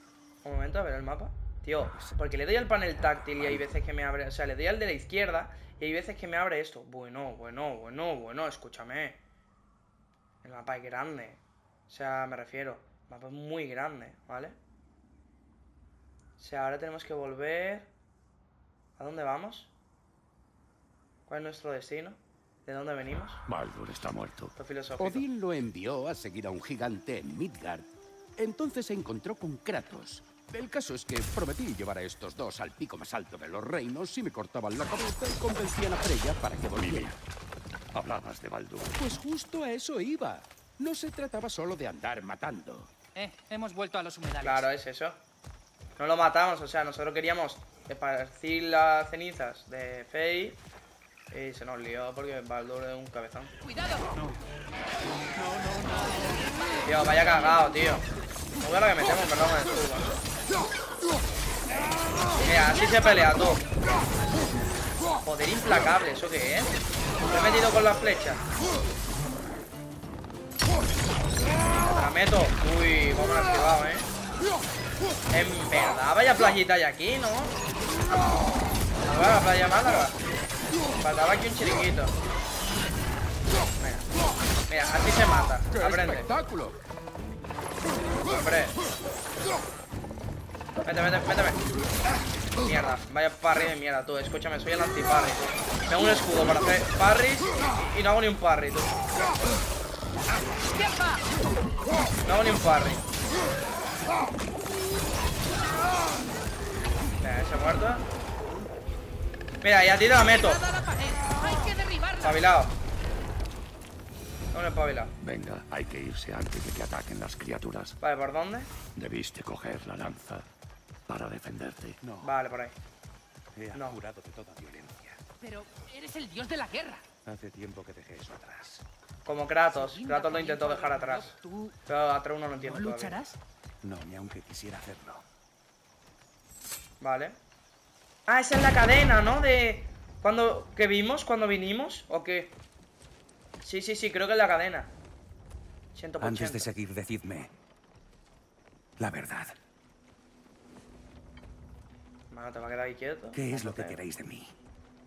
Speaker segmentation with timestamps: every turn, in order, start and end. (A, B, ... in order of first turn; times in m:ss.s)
0:00.4-0:09.2 A
0:01.9-0:02.2 B
0:03.2-0:03.7 B
0:10.4-0:14.6 A
0:16.4-0:17.9 A
0:19.0-0:19.7 A
0:21.3-0:23.4 A
0:23.5-0:24.5 C
0:24.6-0:25.2 A
0:25.0-0:37.2 D
0:36.7-0:37.2 C
0:37.9-0:39.0 C
0:39.0-0:42.9 D
0:43.1-0:44.6 E
0:44.4-0:45.2 A
0:46.0-0:50.6 A
0:51.3-0:53.5 A
0:53.6-0:54.1 E
0:54.1-0:54.4 B
0:55.3-0:56.2 B
0:56.8-0:58.0 A
0:58.6-1:00.2 A
1:02.4-1:03.4 E
1:02.4-1:03.6 A
1:05.2-1:08.4 A
1:11.8-1:14.1 A
1:15.3-1:17.5 A
1:19.0-1:20.2 A
1:21.0-1:22.1 A
1:23.8-1:24.0 A
1:24.7-1:26.3 A
1:25.7-1:26.8 D
1:28.3-1:28.8 A
1:30.8-1:31.6 A
1:32.6-1:39.0 A
1:40.7-1:41.3 E
1:42.2-1:43.0 A
1:47.2-1:48.1 A
1:49.6-1:50.6 A
1:50.2-1:52.5 E
1:52.2-1:52.7 A
1:54.5-1:55.1 A
1:55.2-1:58.0 C
1:58.0-1:58.7 A
1:58.9-2:00.4 C
2:01.1-2:02.0 C
2:02.0-2:02.4 B
2:02.2-2:02.8 A
2:03.5-2:05.2 B
2:03.7-2:04.0 A
2:05.4-2:07.0 E
2:07.2-2:08.8 B
2:09.2-2:11.3 A
2:09.7-2:11.8 E
2:11.9-2:13.2 A
2:12.6-2:13.4 E
2:13.8-2:15.2 B
2:17.0-2:17.4 A
2:18.3-2:22.6 A
2:23.6-2:24.9 A
2:25.9-2:26.7 A
2:26.2-2:27.5 B
2:29.0-2:29.5 B
2:32.3-2:34.0 A
2:33.3-2:34.5 B